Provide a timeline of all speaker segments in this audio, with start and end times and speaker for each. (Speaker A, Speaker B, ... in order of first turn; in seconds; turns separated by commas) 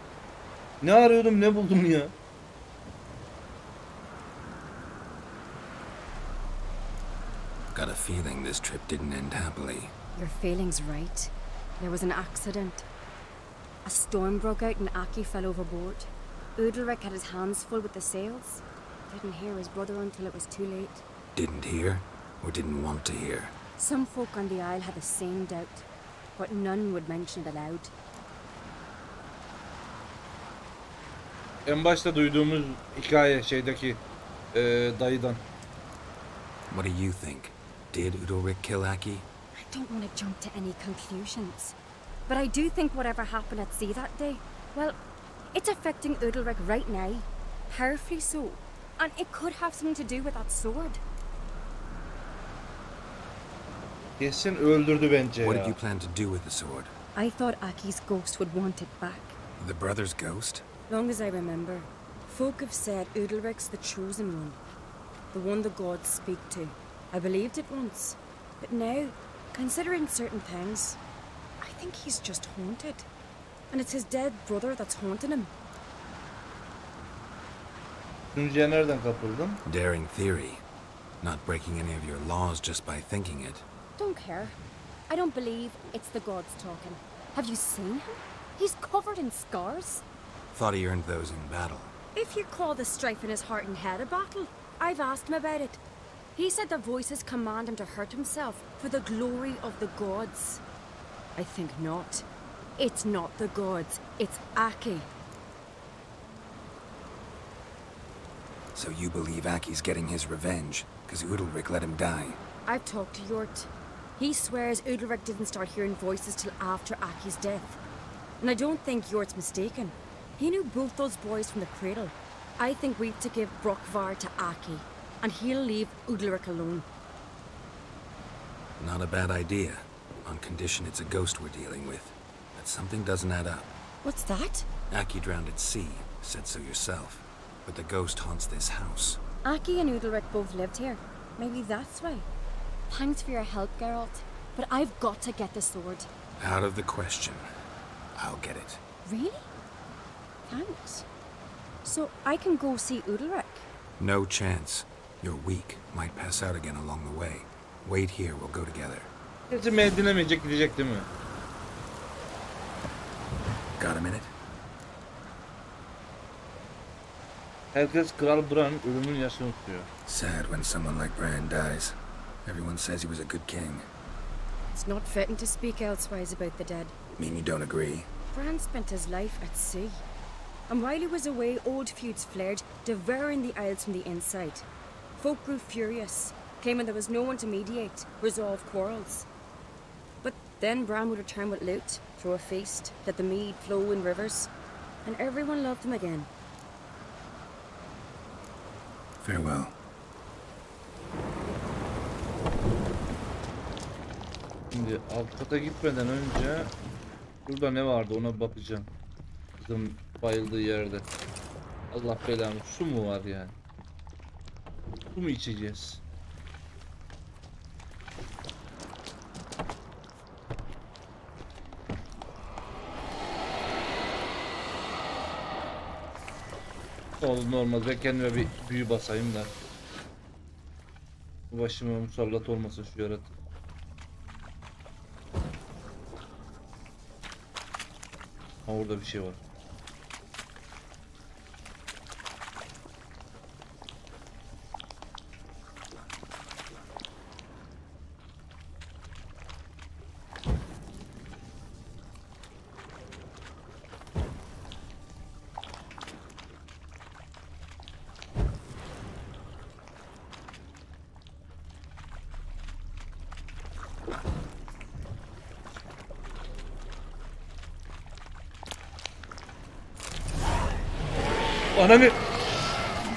Speaker A: 0.8-2.1, Speaker B: 7.7-9.9, Speaker C: 10.2-12.8, Speaker C: 13.8-21.0, Speaker B: 21.4-23.6, Speaker C: 23.8-25.9, Speaker C: 26.4-27.9, Speaker A: 31.6-34.0, Speaker A: 34.5-35.4, Speaker B: 36.7-39.3, Speaker C: 39.5-45.0, Speaker C: 45.5-51.0, Speaker A: 54.2-55.8, Speaker B: 55.4-56.9, Speaker C: 57.1-59.4, Speaker B: 59.6-60.6, Speaker C: 60.9-64.6, Speaker C: 65.3-71.0, Speaker C: 71.6-73.1, Speaker C: 73.7-75.5, Speaker A: 78.3-79.6, Speaker B: 79.6-80.6, Speaker B: 81.2-83.7, Speaker C: 84.0-84.6, Speaker C: 85.1-90.0, Speaker B: 90.5-91.9, Speaker C: 92.1-95.8, Speaker C: 96.3-100.6, Speaker C: 101.4-102.2, Speaker C: 102.8-105.1, Speaker B: 108.7-112.4, Speaker C: 112.7-117.8, Speaker C: 118.4-126.9, Speaker B: 128.8-133.7, Speaker C: 134.0-134.7, Speaker B: 134.9-139.2, Speaker C: 139.4-142.3, Speaker C: 142.9-146.1, Speaker B: 146.4-147.5, Speaker B: 148.1-148.8, Speaker C: 149.1-149.5, Speaker C: 150.5-151.1, Speaker C: 151.8-153.7, Speaker B: 154.0-159.1, Speaker A: 159.5-161.1, Speaker B: 163.8-164.3, Speaker A: 167.7-169.9, Speaker B: 170.1-173.9, Speaker C: 174.7-176.9, Speaker B: 177.2-178.1, Speaker C: 178.3-180.0, Speaker C: 180.7-184.7, Speaker C: 185.2-189.3, Speaker C: 190.2-194.5, Speaker C: 195.1-196.3, Speaker B: 199.2-199.8, Speaker A: 204.7-206.7, Speaker A: 207.5-208.9, Speaker A: 209.6-211.1, Speaker A: 211.9-213.6, Speaker A: 215.1-216.0, Speaker A: 227.2-229.5, Speaker A: 231.5-233.3, Speaker A: 238.7-239.4, Speaker A: 271.8-272.2